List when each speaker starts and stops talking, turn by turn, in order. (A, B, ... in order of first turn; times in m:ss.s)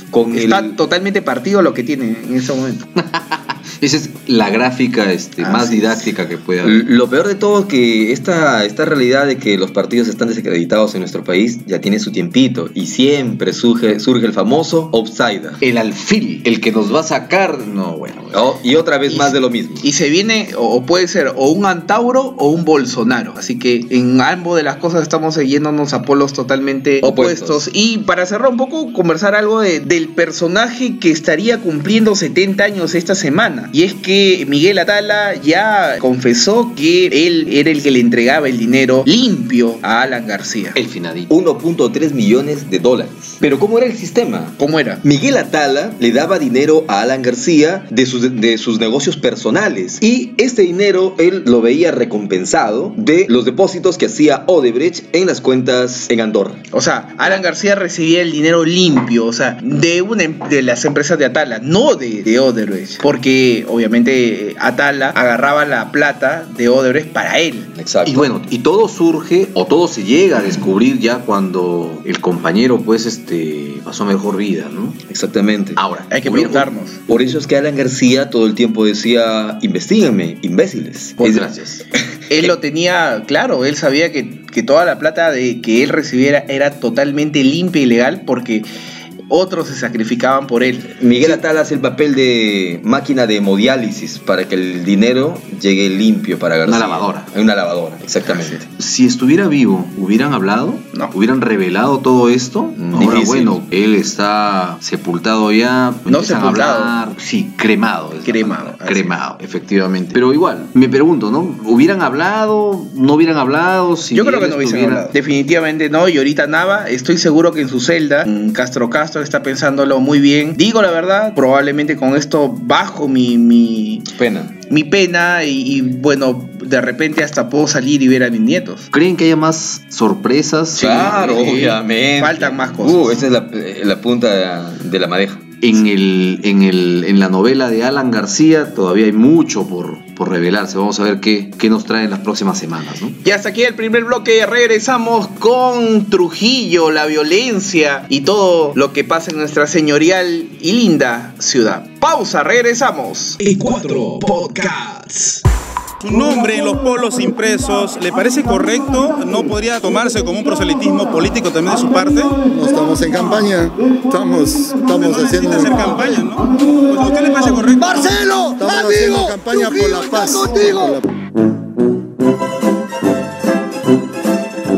0:00.1-0:00.8 A
0:00.3-0:02.8 B
0:03.0-0:06.8 C
0:05.4-0:06.1 B
0:06.6-0:15.6 A
0:15.6-0:18.4 C
0:18.3-0:19.8 A
0:19.1-0:40.8 B
0:27.0-0:27.6 A
0:40.8-0:41.3 C
0:41.3-0:56.6 A
0:44.6-0:45.0 B
0:56.7-1:07.7 B
1:07.8-1:08.3 A
1:08.0-1:15.0 C
1:15.1-1:15.8 A
1:15.8-1:16.6 C
1:16.1-1:17.0 B
1:17.1-1:21.4 A
1:21.2-1:21.8 C
1:22.3-1:28.6 B
1:29.3-1:31.4 B
1:31.0-1:38.6 A
1:36.6-1:37.3 C
1:38.8-1:55.1 C
1:42.8-1:43.6 A
1:46.1-1:46.9 B
1:48.2-1:49.1 B
1:54.1-2:04.0 B
2:04.1-2:04.6 A
2:04.7-2:08.9 B
2:08.9-2:11.3 C
2:10.8-2:13.2 B
2:10.8-2:15.6 A
2:15.6-2:23.2 C
2:23.2-2:33.4 B
2:33.4-2:35.4 D
2:36.0-2:42.4 E
2:42.5-2:46.3 F
2:45.0-2:48.1 E
2:47.8-2:51.0 F